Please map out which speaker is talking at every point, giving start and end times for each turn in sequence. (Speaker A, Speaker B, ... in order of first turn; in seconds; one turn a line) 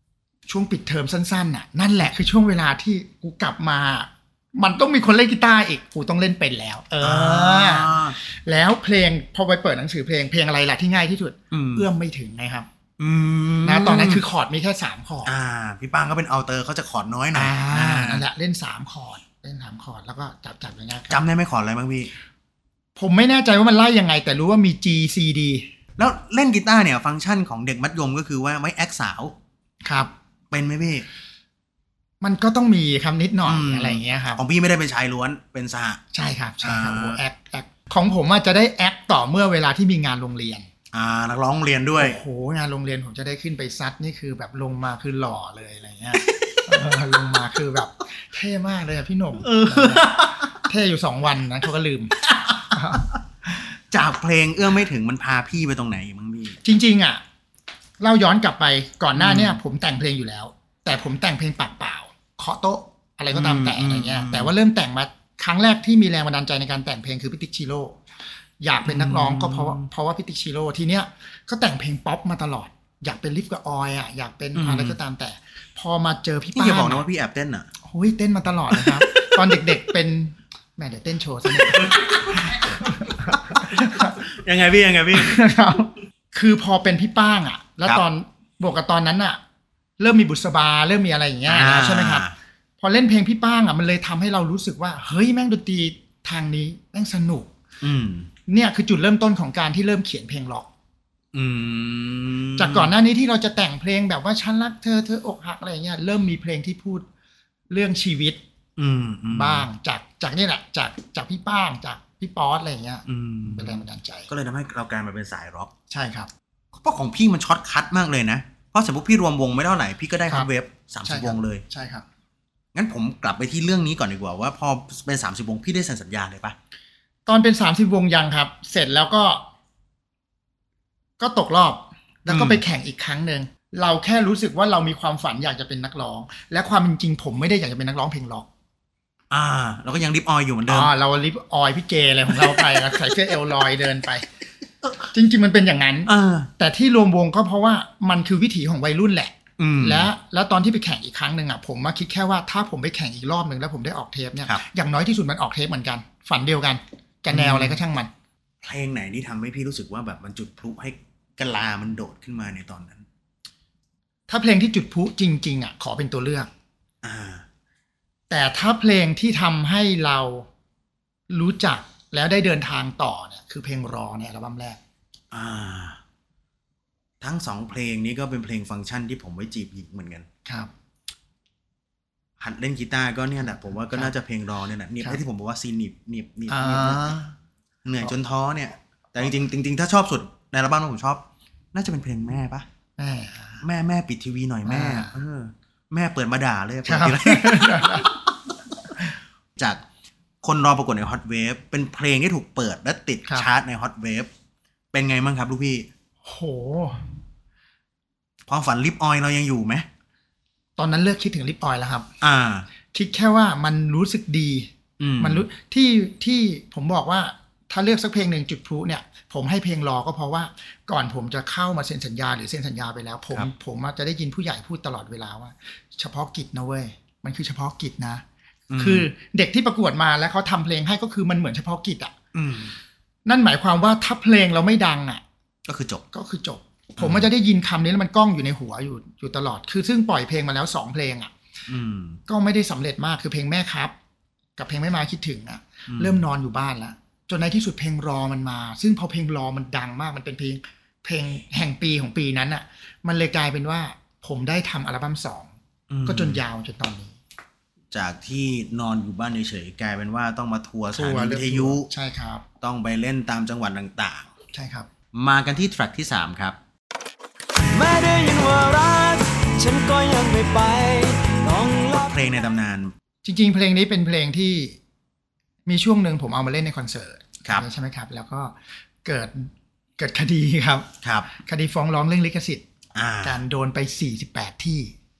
Speaker A: 0.5-12.7
Speaker B: 7.0-8.2
Speaker B: 11.5-11.8
Speaker B: 13.0-14.2
Speaker A: 13.6-15.3
Speaker B: 15.2-18.2
Speaker A: 17.3-21.2
Speaker B: 21.1-22.1
Speaker A: 22.9-25.6
Speaker B: 26.0-29.4
Speaker A: 29.8-30.1
Speaker B: 30.5-31.1
Speaker A: 32.2-34.4
Speaker B: 33.5-36.0
Speaker A: 36.1-40.7
Speaker B: 36.6-37.2
Speaker B: 40.9-42.2
Speaker A: 42.0-52.2
Speaker B: 46.1-47.4
Speaker B: 49.4-50.6
Speaker B: 52.2-53.0
Speaker A: 52.7-53.0
Speaker B: 53.9-56.6
Speaker A: 56.6-57.2
Speaker A: 58.0-68.0
Speaker B: 59.1-59.6
Speaker B: 63.3-64.5
Speaker A: 68.6-77.0
Speaker B: 68.8-69.9
Speaker B: 74.5-75.0
Speaker B: 76.5-77.7
Speaker A: 77.8-84.2
Speaker B: 78.7-79.7
Speaker B: 81.5-85.4
Speaker A: 85.1-89.4
Speaker A: 90.0-92.3
Speaker B: 91.5-92.3
Speaker A: 92.8-97.5
Speaker B: 97.8-98.3
Speaker A: 98.5-100.7
Speaker B: 101.3-102.9
Speaker A: 102.6-107.0
Speaker A: 107.7-108.4
Speaker B: 108.8-109.7
Speaker A: 109.3-114.3
Speaker B: 113.0-115.7
Speaker A: 115.9-116.3
Speaker B: 116.7-121.6
Speaker A: 121.0-122.0
Speaker B: 122.7-126.5
Speaker A: 127.3-129.4
Speaker A: 131.2-138.5
Speaker B: 132.3-132.6
Speaker B: 139.3-140.9
Speaker A: 140.7-144.2
Speaker B: 142.3-143.0
Speaker A: 145.1-158.1
Speaker B: 146.1-146.5
Speaker B: 149.6-150.1
Speaker B: 157.3-157.8
Speaker B: 158.6-163.1
Speaker A: 164.3-166.5
Speaker B: 167.0-167.4
Speaker A: 168.3-170.5
Speaker A: 171.3-174.8
Speaker B: 175.3-176.0
Speaker B: 177.2-180.3
Speaker A: 180.4-180.7
Speaker B: 182.4-187.2
Speaker A: 186.5-187.3
Speaker B: 187.8-192.7
Speaker A: 193.0-193.6
Speaker B: 193.6-198.1
Speaker A: 194.6-195.1
Speaker A: 196.8-198.1
Speaker B: 199.6-199.8
Speaker B: 200.4-204.3
Speaker B: 204.9-205.9
Speaker A: 206.2-207.1
Speaker B: 208.5-209.8
Speaker A: 210.8-212.1
Speaker B: 212.2-212.7
Speaker A: 212.9-228.2
Speaker B: 215.0-215.4
Speaker B: 228.7-229.1
Speaker A: 228.8-232.1
Speaker B: 232.3-232.7
Speaker A: 233.2-235.2
Speaker B: 235.7-236.0
Speaker A: 236.1-241.3
Speaker B: 237.0-237.3
Speaker B: 241.7-242.2
Speaker A: 242.3-243.9
Speaker A: 244.6-255.5
Speaker B: 245.9-246.2
Speaker B: 255.9-256.4
Speaker A: 256.1-257.1
Speaker B: 257.9-261.9
Speaker A: 260.9-262.4
Speaker B: 262.6-264.3
Speaker A: 264.5-264.9
Speaker B: 265.1-266.6
Speaker C: 267.6-272.3
Speaker B: 272.0-272.9
Speaker A: 273.2-274.8
Speaker A: 275.6-282.6
Speaker B: 281.0-281.3
Speaker B: 282.9-283.4
Speaker A: 283.2-284.9